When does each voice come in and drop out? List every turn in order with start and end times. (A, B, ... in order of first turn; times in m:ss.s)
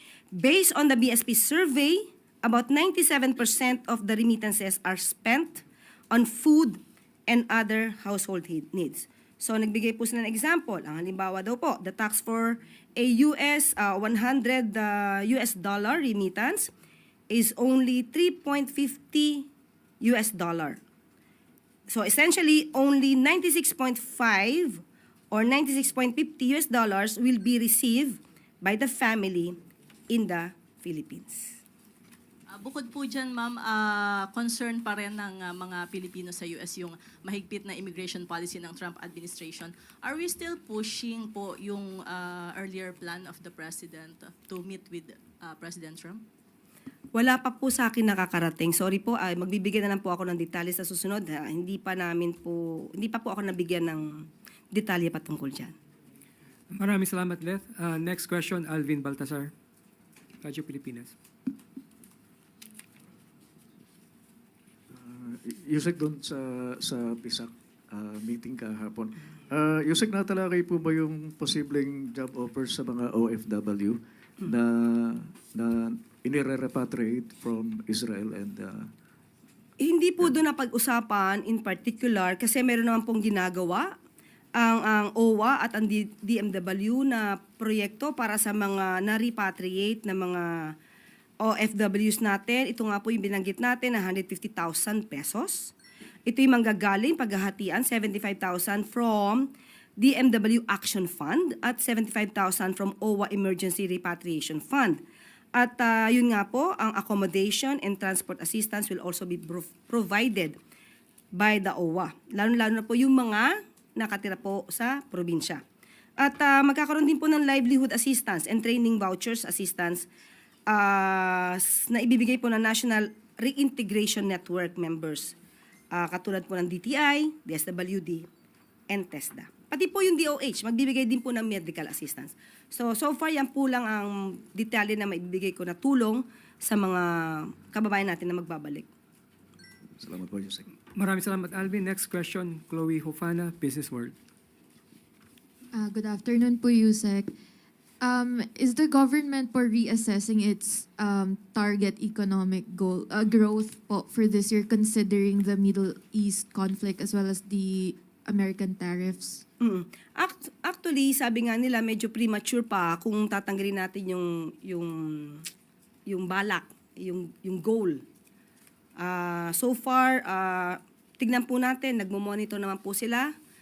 0:00.4-0:16.7 A
0:17.3-0:19.5 A
0:20.0-0:20.8 A
0:21.9-0:29.6 A
0:30.1-0:31.6 A
0:32.5-0:46.2 B
0:47.1-0:54.1 A
0:54.7-0:55.7 A
0:56.7-0:59.5 C
1:00.4-1:01.1 C
1:04.9-1:18.9 D
1:19.8-1:23.9 A
1:24.6-1:30.5 A
1:31.4-1:35.7 A
1:36.3-1:39.5 A
1:40.0-1:45.0 A
1:45.6-1:50.6 A
1:51.4-1:55.6 A
1:56.2-2:00.0 A
2:00.7-2:05.3 A
2:05.9-2:08.2 A
2:08.9-2:18.9 A
2:20.0-2:20.7 D
2:20.9-2:24.1 C
2:26.7-2:27.3 E
2:28.0-2:39.4 E
2:39.6-2:45.4 A
2:46.1-2:48.0 A
2:49.0-2:53.3 A